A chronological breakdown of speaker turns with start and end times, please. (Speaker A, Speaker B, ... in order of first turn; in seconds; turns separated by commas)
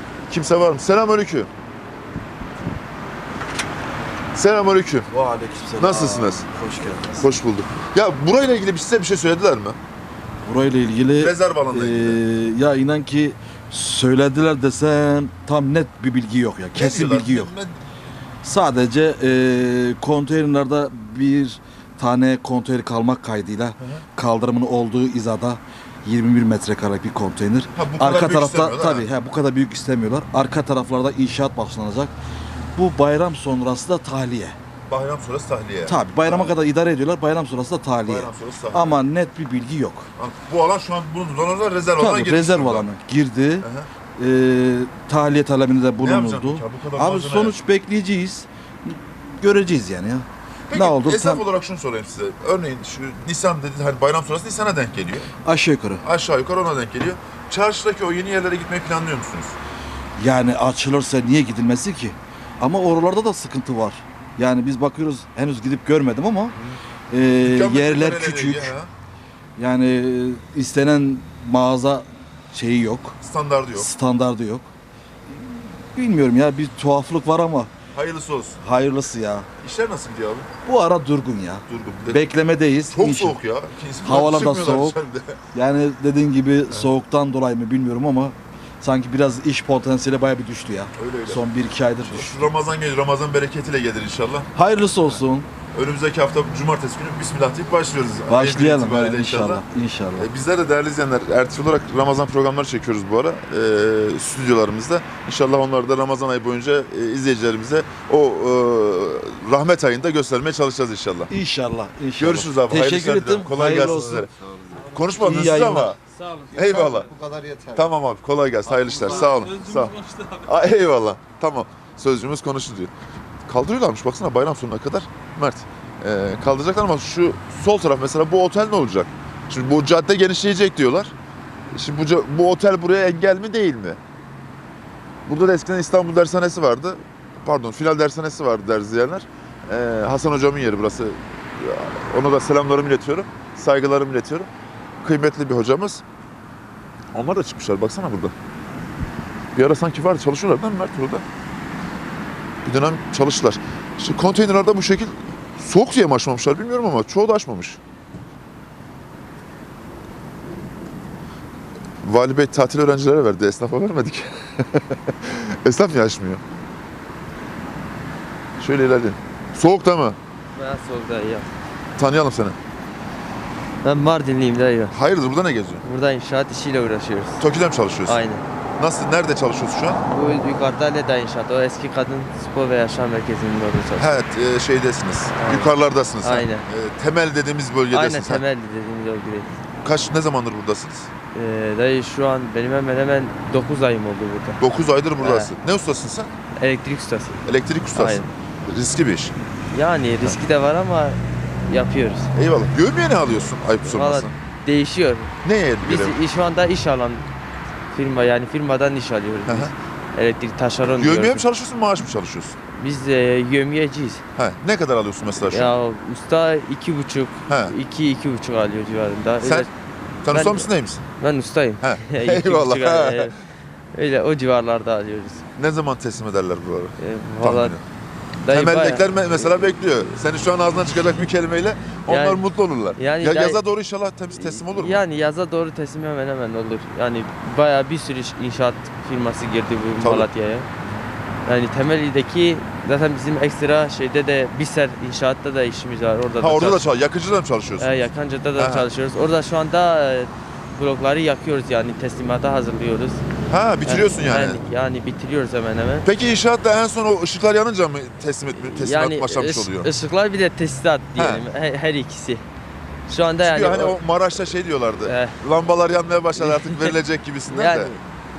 Speaker A: 0.3-1.5, Speaker A: 4.3-5.1, Speaker B: 5.1-7.3, Speaker A: 5.8-6.5, Speaker A: 7.2-9.8, Speaker B: 10.4-17.5, Speaker A: 11.2-12.2, Speaker A: 16.7-17.8, Speaker B: 18.4-32.1, Speaker A: 27.8-29.1, Speaker B: 32.7-34.5, Speaker A: 34.9-36.5, Speaker B: 35.9-40.1, Speaker A: 38.1-39.0, Speaker A: 40.2-42.9, Speaker B: 42.0-51.4, Speaker A: 43.6-43.9, Speaker A: 46.0-47.5, Speaker A: 50.7-55.3, Speaker B: 55.4-56.0, Speaker A: 56.0-59.5, Speaker B: 60.2-66.5, Speaker B: 67.1-68.7, Speaker A: 67.4-68.9, Speaker B: 69.6-73.2, Speaker A: 73.2-73.9, Speaker B: 73.8-74.7, Speaker B: 75.3-77.7, Speaker A: 77.9-78.6, Speaker B: 78.6-79.5, Speaker A: 79.6-80.5, Speaker B: 80.6-83.4, Speaker A: 81.7-82.3, Speaker A: 82.9-85.4, Speaker B: 84.0-85.0, Speaker B: 85.5-92.4, Speaker A: 91.0-91.5, Speaker A: 92.1-94.5, Speaker B: 94.5-95.5, Speaker A: 95.7-99.6, Speaker B: 98.3-100.3, Speaker A: 100.2-111.3, Speaker B: 111.3-114.3, Speaker A: 112.2-116.0, Speaker B: 115.2-115.9, Speaker C: 116.3-117.6, Speaker A: 116.5-117.1, Speaker A: 117.7-122.9, Speaker C: 119.3-120.2, Speaker A: 123.5-131.1, Speaker A: 131.7-134.0, Speaker A: 135.2-144.5, Speaker A: 145.0-146.0, Speaker A: 147.1-148.3, Speaker A: 149.5-151.2, Speaker A: 152.6-157.8, Speaker A: 162.0-166.4, Speaker A: 168.6-170.2, Speaker D: 170.5-171.5, Speaker A: 172.0-172.6, Speaker D: 173.8-174.9, Speaker A: 174.9-175.8, Speaker D: 175.8-177.4, Speaker A: 177.4-178.2, Speaker D: 178.1-178.4, Speaker A: 178.8-180.0, Speaker D: 180.1-184.2, Speaker A: 184.0-188.4, Speaker D: 185.4-185.7, Speaker D: 186.2-186.7, Speaker D: 187.9-189.5, Speaker A: 189.8-191.1, Speaker D: 191.3-194.6, Speaker A: 194.6-196.3, Speaker D: 195.2-195.5, Speaker D: 196.6-197.4, Speaker A: 197.4-199.3, Speaker D: 197.9-198.3, Speaker D: 199.7-202.3, Speaker A: 202.3-204.3, Speaker D: 203.8-205.3, Speaker A: 205.4-206.1, Speaker D: 205.8-207.2, Speaker D: 207.9-211.4, Speaker A: 211.0-212.6, Speaker D: 212.8-214.2, Speaker A: 214.3-215.7, Speaker D: 215.5-219.7, Speaker A: 217.5-217.7, Speaker A: 220.2-221.0, Speaker D: 220.3-223.3, Speaker A: 221.8-223.3, Speaker D: 223.9-225.4, Speaker A: 225.6-227.8, Speaker D: 227.0-227.8, Speaker D: 228.4-229.6, Speaker A: 228.5-235.0, Speaker D: 232.1-232.4, Speaker D: 232.9-233.6, Speaker D: 234.3-240.7, Speaker A: 240.0-240.3, Speaker D: 241.4-246.8, Speaker A: 246.4-247.9, Speaker D: 247.8-253.2, Speaker A: 248.6-248.9, Speaker A: 253.5-254.6, Speaker D: 253.8-256.1, Speaker A: 256.0-259.9, Speaker D: 258.5-262.4, Speaker A: 261.2-261.4, Speaker D: 263.1-264.0, Speaker A: 263.4-267.9, Speaker D: 265.0-265.4, Speaker D: 266.4-267.0, Speaker D: 267.5-268.0